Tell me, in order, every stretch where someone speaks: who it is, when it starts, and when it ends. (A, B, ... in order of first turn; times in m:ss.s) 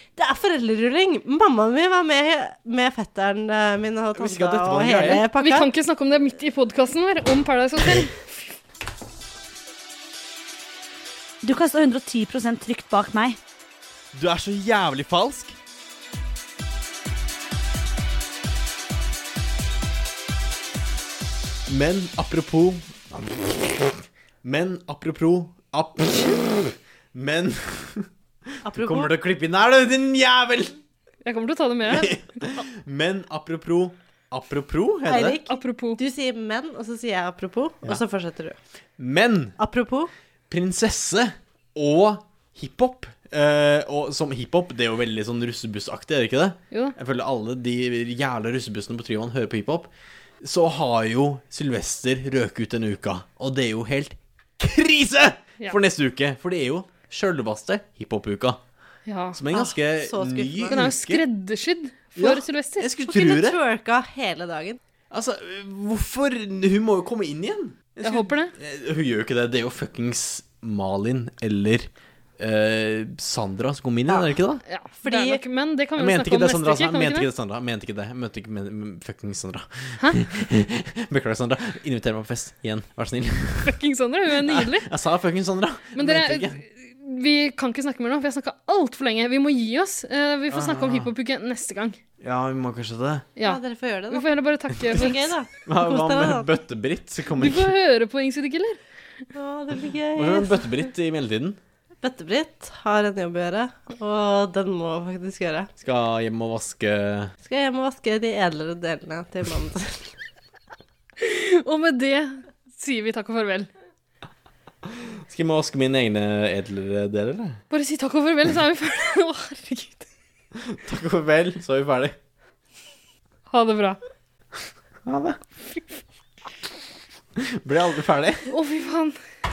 0:00.2-0:05.7 A
0:04.1-0:05.2 B
0:05.4-0:08.5 C
0:11.4-0:13.4 D
0:14.1-0:15.5 B
0:21.7-0:28.1 B
0:28.6-0:29.2 A
0:28.7-0:30.8 B
0:31.2-0:32.2 C
0:31.9-0:35.4 B
0:35.0-0:38.6 A
0:35.5-0:36.0 C
0:39.0-0:39.5 B
0:39.6-0:40.1 A
0:40.5-0:49.9 B
0:50.4-0:58.6 B
0:59.0-0:59.4 C
0:59.4-1:01.2 B
0:59.5-1:00.8 A
1:00.7-1:02.9 C
1:02.2-1:03.6 B
1:03.0-1:04.8 A
1:05.1-1:14.6 B
1:08.0-1:08.5 C
1:14.7-1:17.3 C
1:15.0-1:15.4 A
1:16.0-1:23.8 B
1:23.6-1:24.9 C
1:24.3-1:26.6 B
1:26.0-1:32.0 C
1:30.5-1:31.1 B
1:32.2-1:33.3 B
1:33.4-1:34.3 A
1:34.1-1:35.3 C
1:34.9-1:36.5 A
1:35.6-1:37.7 B
1:37.4-1:38.8 C
1:39.3-1:40.7 A
1:40.1-1:41.6 B
1:42.0-1:45.7 A
1:45.8-1:47.3 B
1:47.4-1:50.0 A
1:51.2-1:53.7 C
1:55.3-1:57.6 B
1:57.7-2:00.0 C
2:00.6-2:02.1 B
2:03.5-2:04.0 C
2:05.0-2:05.4 B
2:07.4-2:08.5 B
2:08.5-2:09.2 C